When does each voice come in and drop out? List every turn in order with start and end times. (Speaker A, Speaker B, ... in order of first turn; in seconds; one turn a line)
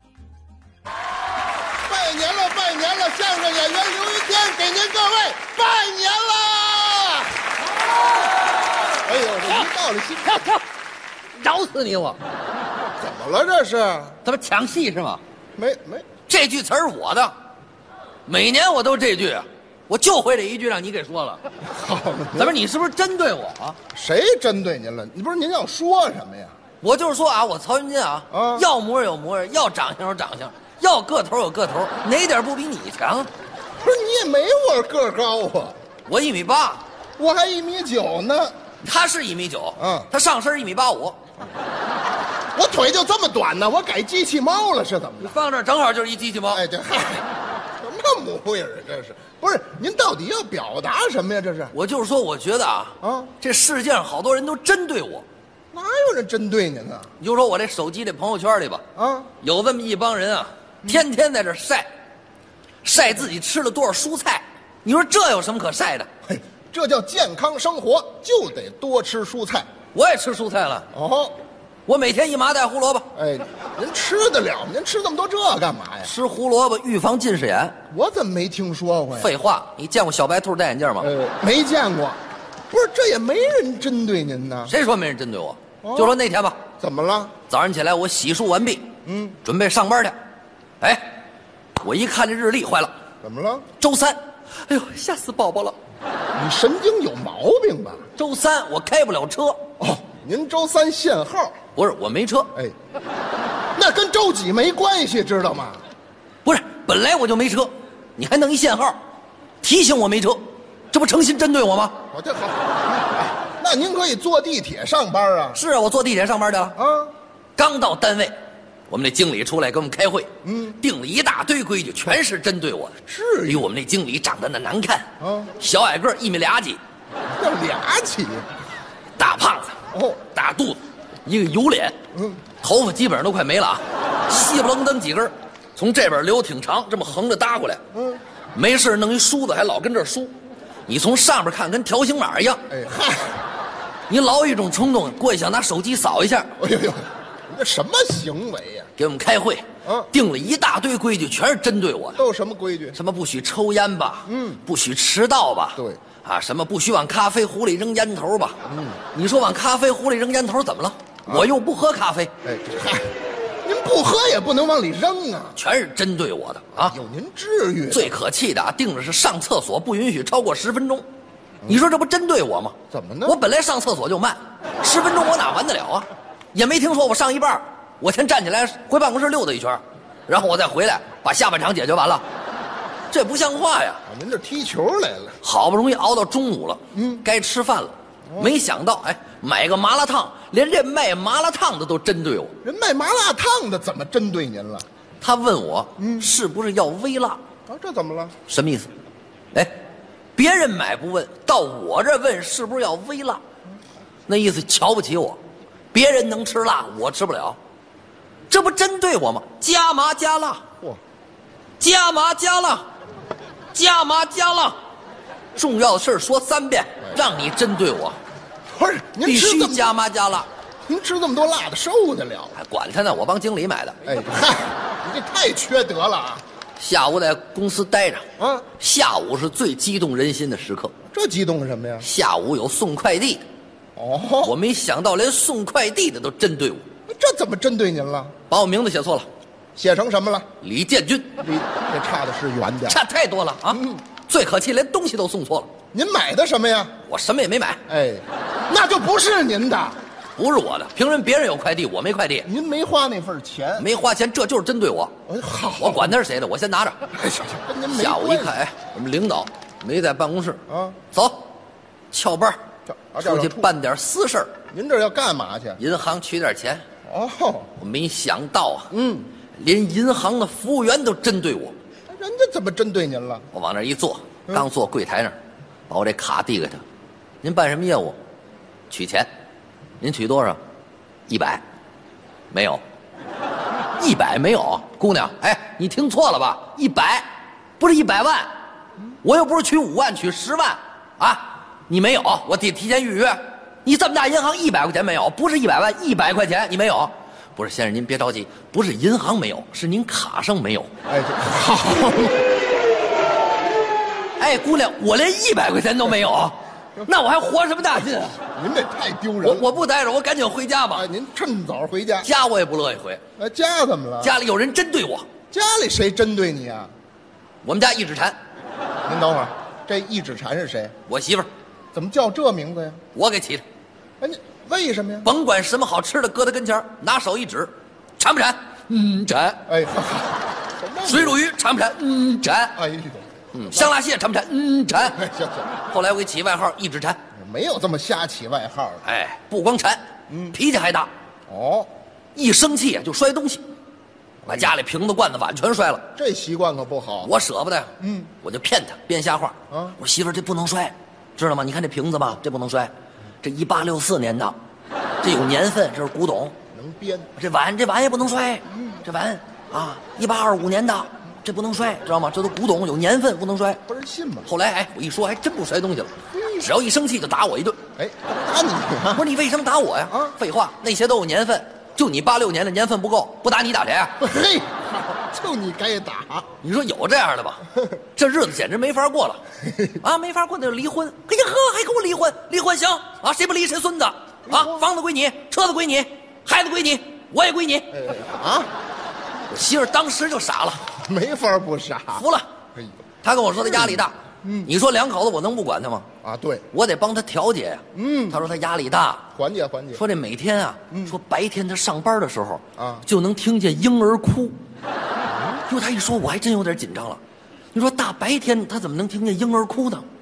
Speaker A: 1.8-7.3
Speaker A: 9.0-10.4
Speaker B: 10.2-10.6
Speaker B: 11.3-12.2
Speaker A: 13.0-14.2
Speaker B: 14.2-15.2
Speaker A: 15.6-16.1
Speaker B: 16.3-17.3
Speaker B: 18.2-21.4
Speaker A: 21.6-22.6
Speaker B: 22.4-23.8
Speaker A: 23.9-26.5
Speaker B: 26.8-33.3
Speaker A: 28.3-28.6
Speaker A: 33.8-35.8
Speaker B: 36.0-36.8
Speaker A: 37.2-38.5
Speaker B: 38.8-41.2
Speaker A: 39.8-40.1
Speaker A: 42.5-45.4
Speaker B: 45.2-46.6
Speaker A: 46.5-47.3
Speaker A: 47.8-51.7
Speaker B: 51.7-55.2
Speaker A: 53.0-53.3
Speaker A: 55.7-57.1
Speaker B: 57.2-58.8
Speaker A: 58.9-59.3
Speaker B: 59.4-61.9
Speaker B: 62.8-66.1
Speaker A: 66.2-69.7
Speaker B: 69.9-70.9
Speaker A: 70.9-71.4
Speaker B: 71.8-73.1
Speaker A: 73.1-76.1
Speaker B: 76.0-77.8
Speaker A: 77.9-79.3
Speaker B: 79.2-81.1
Speaker A: 81.0-82.2
Speaker A: 82.7-84.7
Speaker B: 84.7-86.6
Speaker A: 85.8-86.2
Speaker A: 86.8-87.3
Speaker B: 87.5-88.8
Speaker A: 89.0-89.4
Speaker B: 89.4-90.2
Speaker B: 90.8-91.1
Speaker B: 91.7-92.9
Speaker A: 93.2-93.7
Speaker B: 93.8-95.8
Speaker A: 96.3-98.0
Speaker B: 98.2-99.6
Speaker A: 99.8-101.5
Speaker B: 101.7-102.5
Speaker A: 103.7-105.8
Speaker B: 106.4-109.0
Speaker B: 109.6-112.0
Speaker A: 112.1-115.6
Speaker B: 115.5-116.8
Speaker A: 116.8-117.1
Speaker B: 117.6-118.3
Speaker B: 118.9-125.1
Speaker A: 120.4-120.8
Speaker A: 123.1-123.7
Speaker A: 125.2-125.5
Speaker B: 125.6-126.8
Speaker A: 127.3-128.6
Speaker B: 129.2-129.8
Speaker A: 129.9-130.2
Speaker B: 130.3-131.9
Speaker A: 132.1-132.4
Speaker B: 132.6-137.8
Speaker A: 137.9-138.2
Speaker B: 138.5-140.3
Speaker B: 140.9-142.6
Speaker A: 142.7-143.4
Speaker B: 144.1-146.5
Speaker A: 146.6-148.9
Speaker B: 148.9-152.2
Speaker A: 149.8-150.1
Speaker A: 152.1-153.0
Speaker B: 152.9-158.6
Speaker A: 154.2-154.6
Speaker A: 158.6-159.0
Speaker B: 159.1-162.3
Speaker A: 162.4-165.6
Speaker B: 165.5-166.9
Speaker A: 166.8-168.2
Speaker B: 167.9-171.0
Speaker B: 171.7-182.2
Speaker A: 172.9-173.4
Speaker B: 183.1-184.0
Speaker A: 184.1-185.4
Speaker B: 185.4-192.5
Speaker A: 186.9-187.2
Speaker A: 188.3-188.6
Speaker A: 192.6-194.8
Speaker B: 195.2-197.4
Speaker A: 196.0-196.3
Speaker A: 197.7-198.3
Speaker B: 198.5-198.9
Speaker B: 200.3-203.4
Speaker B: 204.3-205.4
Speaker B: 205.9-207.6
Speaker B: 208.5-210.6
Speaker B: 211.8-212.9
Speaker B: 213.7-214.8
Speaker B: 215.6-218.2
Speaker A: 218.7-219.9
Speaker B: 219.2-220.5
Speaker A: 220.9-222.6
Speaker B: 222.5-224.0
Speaker A: 224.0-226.4
Speaker B: 226.8-228.2
Speaker A: 228.4-228.7
Speaker B: 228.8-230.9
Speaker A: 231.1-232.1
Speaker B: 232.0-233.4
Speaker A: 233.9-234.6
Speaker B: 234.4-236.8
Speaker A: 237.1-238.3
Speaker B: 238.5-239.3
Speaker A: 239.8-240.5
Speaker B: 240.6-241.3
Speaker A: 241.4-243.0
Speaker B: 242.9-245.7
Speaker A: 243.7-244.0
Speaker A: 245.9-246.9
Speaker B: 247.0-247.8
Speaker A: 247.9-250.0
Speaker B: 250.4-252.5
Speaker A: 252.4-253.9
Speaker B: 253.8-255.1
Speaker A: 255.3-256.1
Speaker B: 255.8-257.0
Speaker A: 257.1-258.6
Speaker B: 257.9-261.4
Speaker A: 260.7-261.0
Speaker B: 262.1-262.6
Speaker A: 262.9-263.7
Speaker B: 263.2-264.5
Speaker A: 264.7-265.8
Speaker B: 265.8-266.8
Speaker A: 267.0-267.7
Speaker B: 267.8-268.9
Speaker A: 268.9-269.3
Speaker B: 269.5-271.7
Speaker A: 272.1-273.5
Speaker B: 273.5-275.4
Speaker B: 275.9-276.8
Speaker B: 277.4-278.2
Speaker B: 278.9-279.3
Speaker B: 280.0-280.6
Speaker B: 281.3-281.6
Speaker B: 282.5-282.8
Speaker B: 283.9-287.3
Speaker B: 287.8-288.5
Speaker B: 289.2-300.9
Speaker A: 301.1-302.5
Speaker B: 304.4-308.4
Speaker A: 308.5-309.7
Speaker B: 309.4-311.1
Speaker A: 310.9-312.3
Speaker B: 312.2-313.2
Speaker A: 313.4-314.3
Speaker B: 314.2-315.3
Speaker A: 315.5-316.9
Speaker B: 317.6-318.4
Speaker A: 319.0-320.9
Speaker B: 321.1-321.5
Speaker A: 321.9-323.0
Speaker B: 323.1-323.6
Speaker A: 324.2-325.3
Speaker B: 325.2-329.6
Speaker A: 329.7-331.4
Speaker B: 331.0-332.8
Speaker A: 332.7-333.9
Speaker B: 333.5-335.2
Speaker A: 335.0-335.7
Speaker B: 335.8-337.2
Speaker A: 337.3-339.0
Speaker B: 339.0-341.1
Speaker A: 340.3-340.6
Speaker A: 341.5-341.9
Speaker B: 342.3-343.6
Speaker A: 344.4-344.7
Speaker B: 344.5-346.1
Speaker A: 346.1-347.3
Speaker B: 347.2-354.6
Speaker A: 348.0-348.3
Speaker A: 349.7-350.0
Speaker B: 355.2-356.5
Speaker A: 356.7-357.3
Speaker B: 357.4-363.8
Speaker A: 358.7-359.0
Speaker A: 363.9-364.5
Speaker B: 364.4-367.8
Speaker A: 366.3-366.7
Speaker A: 367.9-369.2
Speaker B: 369.1-374.1
Speaker A: 370.1-370.4
Speaker A: 374.2-376.5
Speaker B: 376.6-377.6
Speaker B: 378.1-379.4
Speaker A: 379.7-379.9
Speaker B: 380.0-387.9
Speaker A: 384.5-384.9
Speaker A: 387.9-388.7
Speaker B: 389.5-390.9
Speaker A: 390.9-392.9
Speaker B: 392.1-392.5
Speaker B: 393.2-396.1
Speaker A: 393.5-394.7
Speaker A: 396.2-396.6
Speaker B: 396.7-399.2
Speaker A: 397.9-398.4
Speaker A: 399.3-400.0
Speaker B: 399.9-404.6
Speaker A: 402.8-403.1
Speaker A: 405.3-405.6
Speaker B: 405.6-407.2
Speaker B: 407.7-410.1